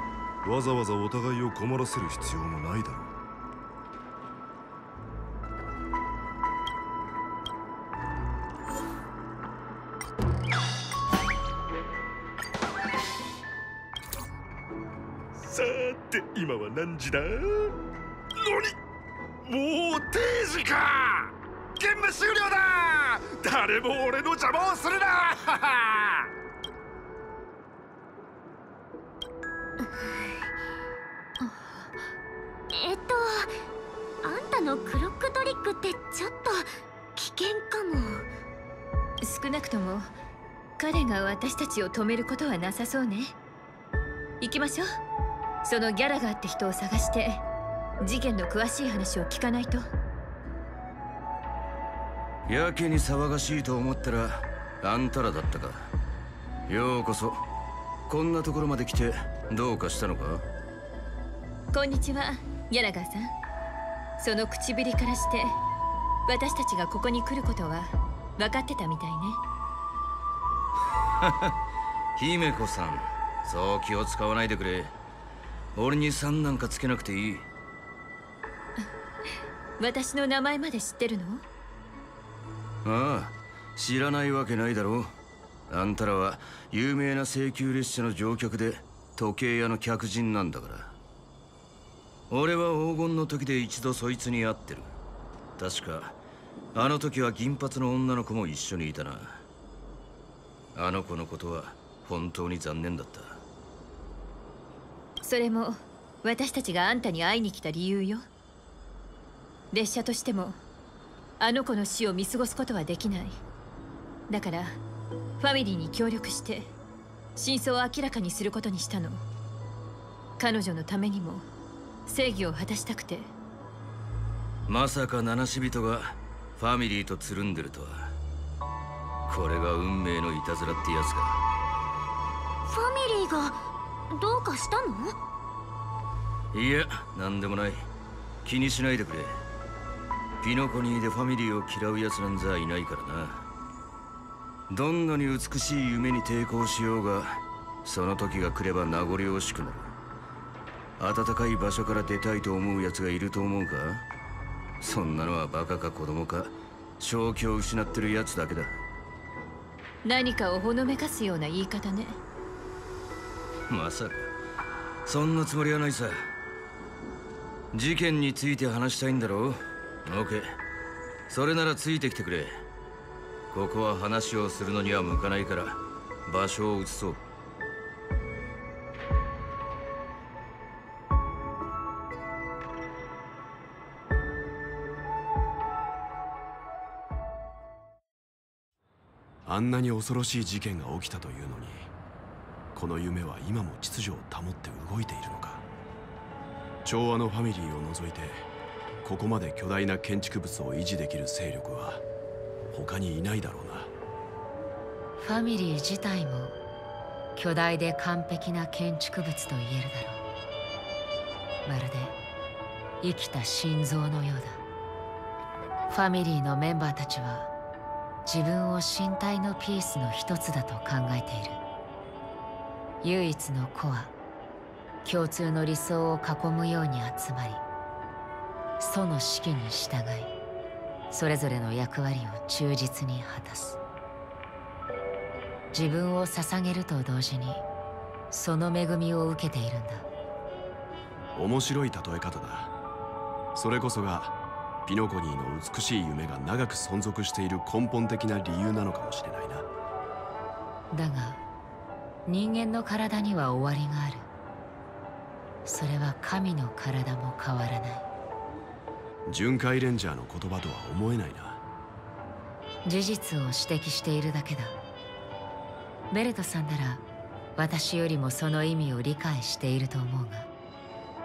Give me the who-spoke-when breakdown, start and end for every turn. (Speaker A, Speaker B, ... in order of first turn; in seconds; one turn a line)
Speaker A: 0.4-3.1
Speaker B: 15.5-17.4
Speaker B: 18.4-18.7
Speaker B: 19.5-21.1
Speaker B: 21.8-26.1
Speaker C: 31.4-31.8
Speaker D: 32.7-33.5
Speaker D: 34.2-38.3
Speaker C: 39.2-40.1
Speaker C: 40.8-43.4
Speaker C: 44.4-44.9
Speaker C: 45.6-47.4
Speaker C: 48.0-49.9
Speaker E: 52.5-55.9
Speaker E: 56.7-57.4
Speaker E: 58.1-60.4
Speaker C: 61.7-63.3
Speaker C: 64.2-65.6
Speaker C: 66.3-69.4
Speaker E: 71.2-71.5
Speaker E: 72.2-74.9
Speaker E: 75.8-77.5
Speaker C: 79.8-81.4
Speaker E: 82.8-85.1
Speaker E: 85.7-91.0
Speaker E: 92.3-94.9
Speaker E: 95.6-96.2
Speaker E: 96.8-99.4
Speaker E: 100.8-103.4
Speaker C: 105.2-108.2
Speaker C: 109.7-110.6
Speaker C: 111.4-113.4
Speaker C: 114.3-114.8
Speaker C: 115.4-116.7
Speaker C: 117.4-119.2
Speaker C: 120.4-121.5
Speaker C: 122.1-123.3
Speaker E: 124.7-128.1
Speaker E: 129.3-131.4
Speaker D: 132.7-133.6
Speaker D: 134.1-135.2
Speaker E: 136.5-137.9
Speaker E: 138.4-139.4
Speaker E: 140.4-143.5
Speaker E: 144.7-149.9
Speaker E: 151.0-154.1
Speaker E: 154.8-158.8
Speaker C: 160.0-162.2
Speaker E: 163.7-164.3
Speaker E: 165.1-166.3
Speaker E: 167.7-170.5
Speaker E: 171.3-172.6
Speaker E: 173.5-177.2
Speaker F: 189.5-191.9
Speaker F: 192.7-195.6
Speaker F: 196.8-198.5
Speaker F: 199.0-202.0
Speaker F: 202.7-203.9
Speaker G: 205.2-206.6
Speaker G: 207.3-210.2
Speaker G: 211.7-212.2
Speaker G: 213.0-214.6
Speaker G: 215.9-217.5
Speaker G: 218.3-221.6
Speaker G: 223.0-224.1
Speaker G: 225.0-227.6
Speaker G: 228.8-230.3
Speaker G: 231.1-233.8
Speaker G: 235.7-237.6
Speaker G: 238.3-240.1
Speaker F: 241.3-242.7
Speaker F: 243.6-244.3
Speaker F: 244.9-249.7
Speaker G: 250.9-251.4
Speaker G: 252.3-254.3
Speaker G: 255.7-258.1
Speaker F: 259.3-261.6
Speaker G: 262.8-264.8
Speaker G: 266.1-267.0
Speaker G: 267.6-270.5